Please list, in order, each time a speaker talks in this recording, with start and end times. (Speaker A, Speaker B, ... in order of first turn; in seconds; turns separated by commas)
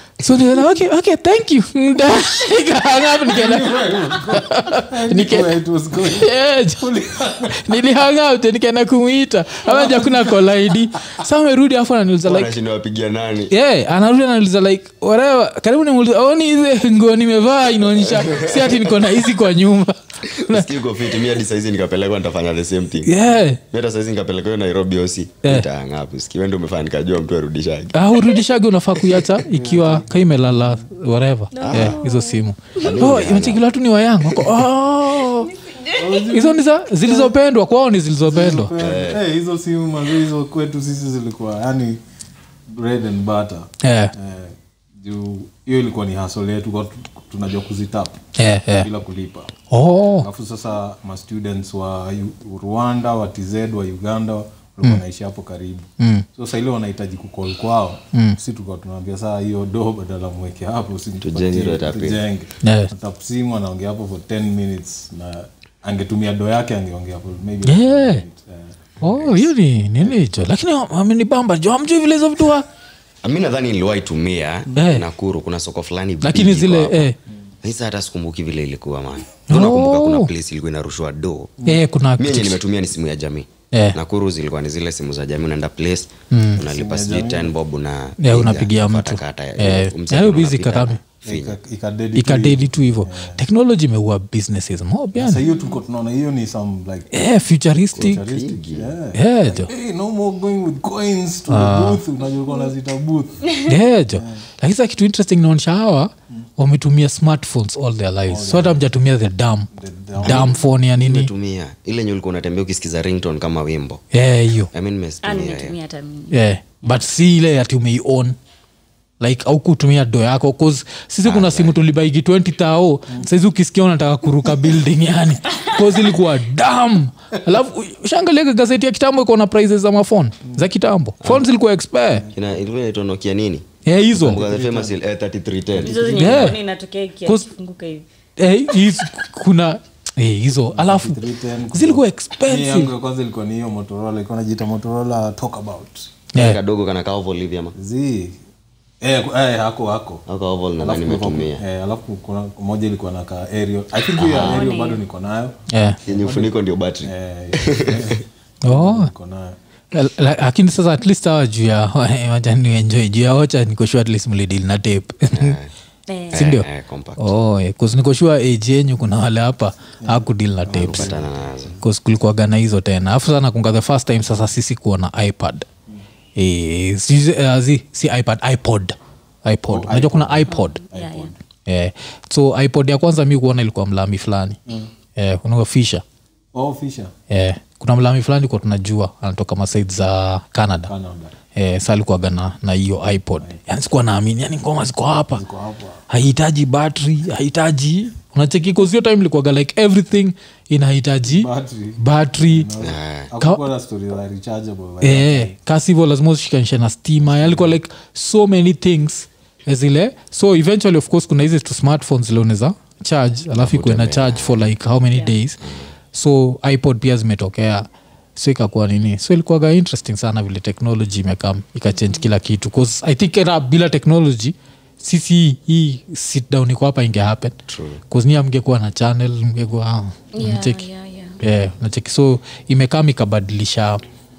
Speaker A: 0.2-12.5, Speaker B: 3.2-7.8, Speaker B: 9.7-10.4, Speaker C: 12.2-13.5, Speaker A: 13.5-20.7, Speaker C: 18.0-19.1, Speaker C: 20.2-23.1, Speaker A: 23.0-23.6, Speaker C: 23.7-28.1, Speaker A: 27.9-35.5, Speaker B: 29.4-30.8, Speaker D: 31.5-32.8, Speaker C: 31.6-32.0, Speaker C: 32.8-33.6, Speaker C: 34.2-34.5, Speaker D: 35.6-36.0, Speaker B: 35.9-37.3, Speaker A: 36.2-38.7, Speaker B: 38.2-42.0, Speaker C: 38.8-39.2, Speaker B: 42.7-48.2, Speaker A: 43.8-44.1, Speaker A: 48.4-48.9, Speaker B: 48.8-49.5, Speaker A: 49.7-50.3, Speaker B: 50.2-68.9, Speaker A: 56.0-56.2, Speaker C: 61.2-62.2, Speaker A: 62.6-62.9, Speaker A: 67.6-68.2, Speaker A: 69.0-72.7, Speaker C: 69.0-69.5, Speaker C: 73.2-77.1, Speaker A: 74.7-75.1, Speaker A: 76.2-77.2, Speaker C: 77.6-81.5, Speaker A: 79.5-80.3, Speaker A: 81.6-82.6, Speaker C: 82.2-91.6, Speaker A: 83.7-84.0, Speaker A: 86.3-86.6, Speaker B: 86.6-87.5, Speaker A: 88.2-91.0, Speaker B: 91.2-93.4, Speaker A: 92.1-95.4, Speaker B: 95.1-97.1, Speaker D: 95.5-95.8, Speaker A: 97.1-98.3, Speaker C: 97.9-98.9, Speaker B: 98.0-104.4, Speaker A: 99.1-99.7, Speaker A: 101.5-102.0, Speaker A: 103.6-111.3, Speaker B: 108.3-108.9, Speaker B: 109.7-110.6, Speaker C: 110.2-114.0, Speaker A: 114.1-114.7, Speaker C: 114.7-115.8, Speaker D: 115.2-116.4, Speaker A: 116.3-118.4, Speaker A: 119.2-132.3, Speaker C: 121.2-121.8, Speaker C: 132.3-136.5, Speaker A: 133.8-134.4, Speaker B: 134.2-135.0, Speaker D: 135.8-138.1, Speaker A: 136.1-136.6, Speaker A: 138.4-142.9, Speaker B: 140.7-146.1, Speaker A: 146.3-146.6, Speaker C: 146.3-147.7, Speaker B: 147.7-148.4, Speaker B: 149.0-150.2, Speaker C: 150.3-151.6, Speaker B: 150.8-159.6, Speaker C: 154.2-154.7, Speaker D: 154.3-155.0, Speaker A: 155.7-156.0, Speaker C: 156.1-158.2, Speaker A: 158.6-159.1, Speaker A: 159.9-165.6, Speaker C: 165.3-165.7, Speaker D: 166.1-166.5, Speaker C: 166.3-167.3, Speaker A: 166.3-166.7, Speaker A: 167.2-171.2, Speaker B: 170.0-171.3, Speaker C: 170.7-171.8, Speaker A: 171.8-175.7, Speaker A: 176.4-180.8, Speaker B: 179.7-181.4, Speaker D: 180.4-181.3, Speaker A: 181.7-184.6, Speaker A: 185.2-186.0, Speaker B: 186.5-187.1, Speaker A: 187.3-190.9, Speaker B: 190.9-191.3, Speaker A: 191.6-195.4, Speaker B: 195.3-196.0, Speaker A: 196.1-202.7, Speaker B: 201.2-205.5, Speaker C: 202.8-203.3, Speaker A: 205.0-215.6, Speaker B: 207.2-207.7, Speaker C: 213.6-214.7, Speaker C: 215.6-215.9, Speaker A: 216.1-230.9, Speaker D: 222.0-222.2, Speaker C: 227.7-228.0, Speaker D: 230.3-231.4, Speaker A: 231.4-234.0